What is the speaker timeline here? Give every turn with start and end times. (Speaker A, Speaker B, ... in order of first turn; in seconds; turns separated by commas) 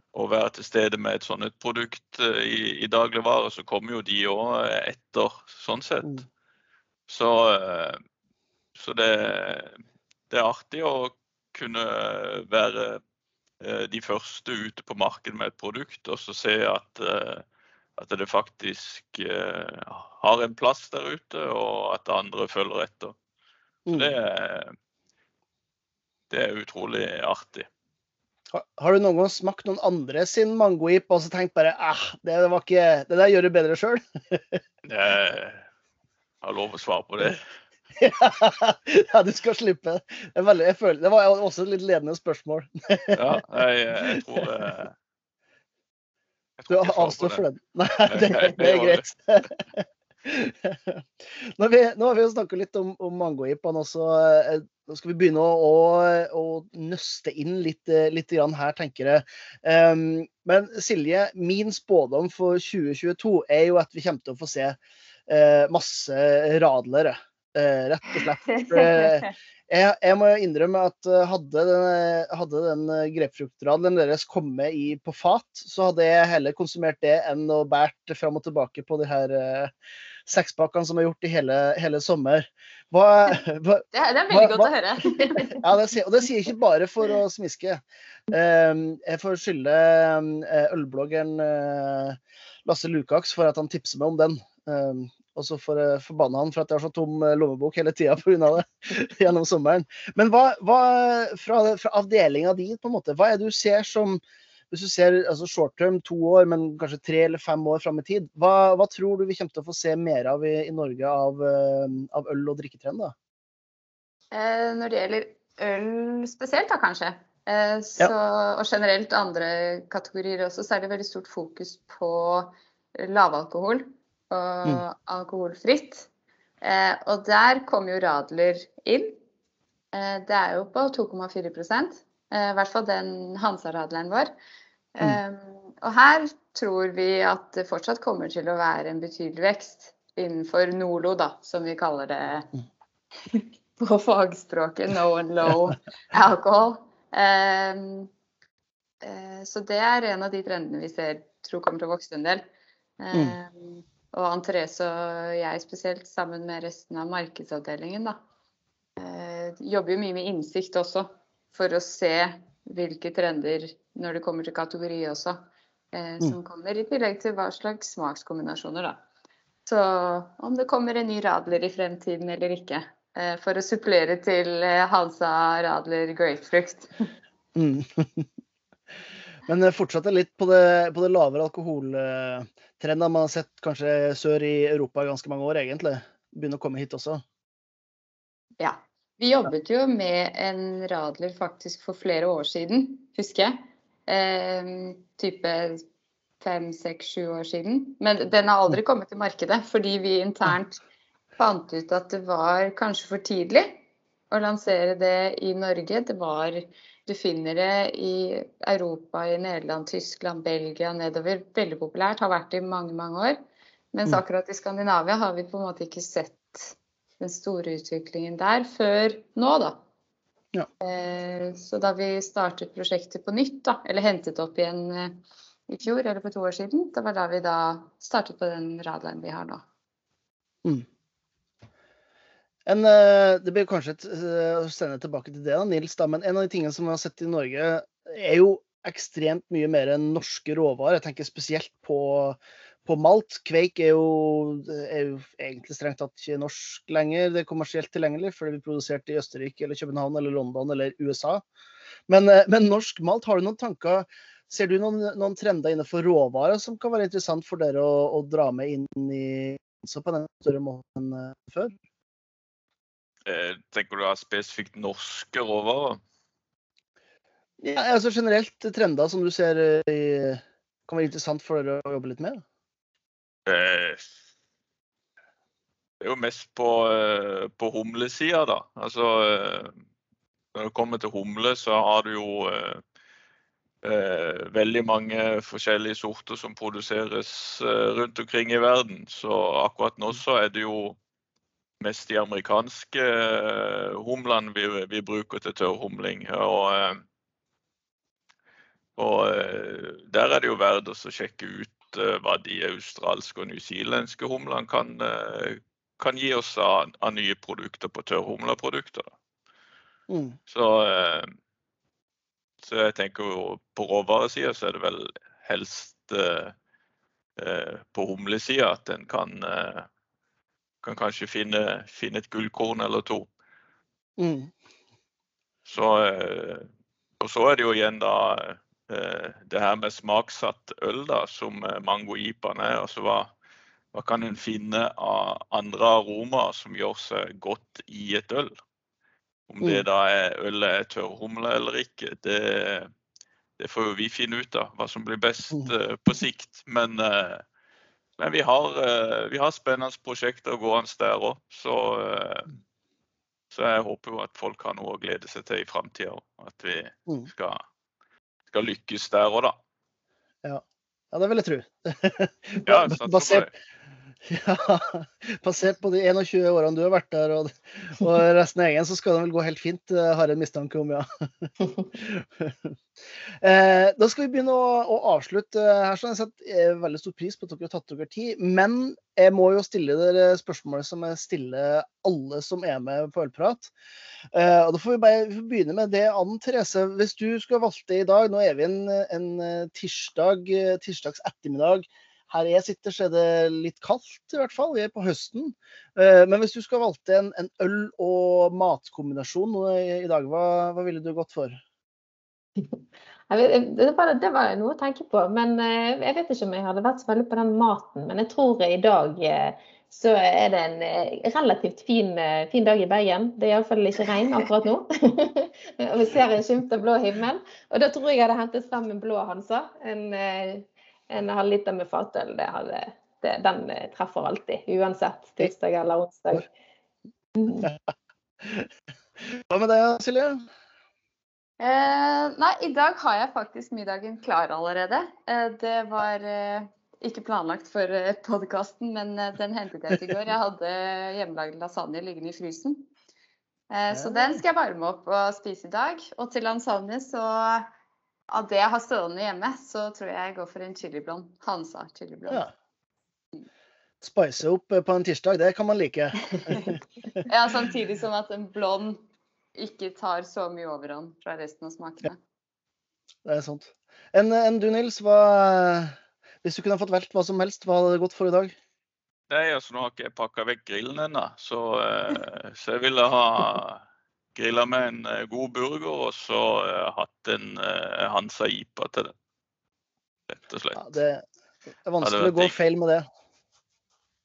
Speaker A: 0.1-6.2, Speaker A: 7.1-8.0, Speaker A: 8.7-9.8, Speaker A: 10.3-13.0, Speaker A: 13.6-17.4, Speaker A: 18.0-23.1, Speaker B: 23.9-24.1, Speaker A: 23.9-24.7, Speaker A: 26.3-27.7, Speaker B: 28.5-34.6, Speaker A: 34.9-35.6, Speaker A: 36.4-37.4, Speaker B: 38.0-43.4, Speaker A: 43.1-44.9, Speaker B: 44.1-44.4, Speaker A: 46.6-47.4, Speaker B: 46.7-79.7, Speaker A: 48.0-49.0, Speaker C: 68.4-69.3, Speaker B: 80.2-84.7, Speaker C: 83.9-85.7, Speaker B: 85.5-113.1, Speaker C: 114.3-126.1, Speaker C: 126.6-129.2, Speaker C: 129.9-134.3, Speaker C: 134.9-142.5, Speaker C: 143.2-148.1, Speaker C: 149.0-152.4, Speaker C: 153.0-158.2, Speaker C: 159.0-169.0, Speaker C: 169.7-176.9, Speaker B: 177.5-178.3, Speaker B: 179.4-187.2, Speaker C: 188.6-195.8, Speaker C: 196.4-200.8, Speaker C: 201.4-213.4, Speaker C: 213.9-219.8, Speaker C: 220.8-229.6, Speaker B: 232.7-251.4, Speaker B: 252.1-261.7, Speaker A: 263.2-266.0, Speaker B: 267.6-272.4, Speaker A: 273.4-274.1, Speaker A: 276.0-279.7, Speaker A: 280.5-282.8, Speaker A: 283.8-291.0, Speaker A: 291.8-297.0, Speaker A: 299.0-309.1, Speaker B: 310.1-310.4, Speaker A: 310.5-311.3, Speaker A: 312.6-316.5, Speaker A: 317.4-319.9, Speaker A: 320.8-323.3, Speaker B: 324.2-324.5, Speaker A: 325.6-326.7, Speaker A: 327.2-333.3, Speaker A: 333.9-338.5, Speaker A: 339.5-342.9, Speaker A: 343.6-347.4, Speaker A: 348.2-352.6, Speaker A: 353.5-357.6, Speaker A: 358.5-359.6, Speaker B: 360.4-363.5, Speaker A: 362.6-363.5, Speaker B: 364.3-372.7, Speaker B: 373.4-383.7, Speaker B: 384.3-401.6, Speaker D: 403.3-426.5, Speaker D: 427.4-427.6, Speaker B: 428.4-428.7, Speaker B: 429.2-430.4, Speaker C: 431.6-442.9, Speaker C: 443.7-447.7, Speaker B: 443.9-444.4, Speaker C: 448.3-452.4, Speaker B: 454.0-457.2, Speaker C: 456.4-459.0, Speaker C: 459.5-462.2, Speaker B: 463.2-468.6, Speaker A: 469.3-473.8, Speaker A: 474.3-479.1, Speaker A: 480.3-480.9, Speaker B: 480.8-481.2, Speaker B: 481.8-483.1, Speaker A: 482.0-482.5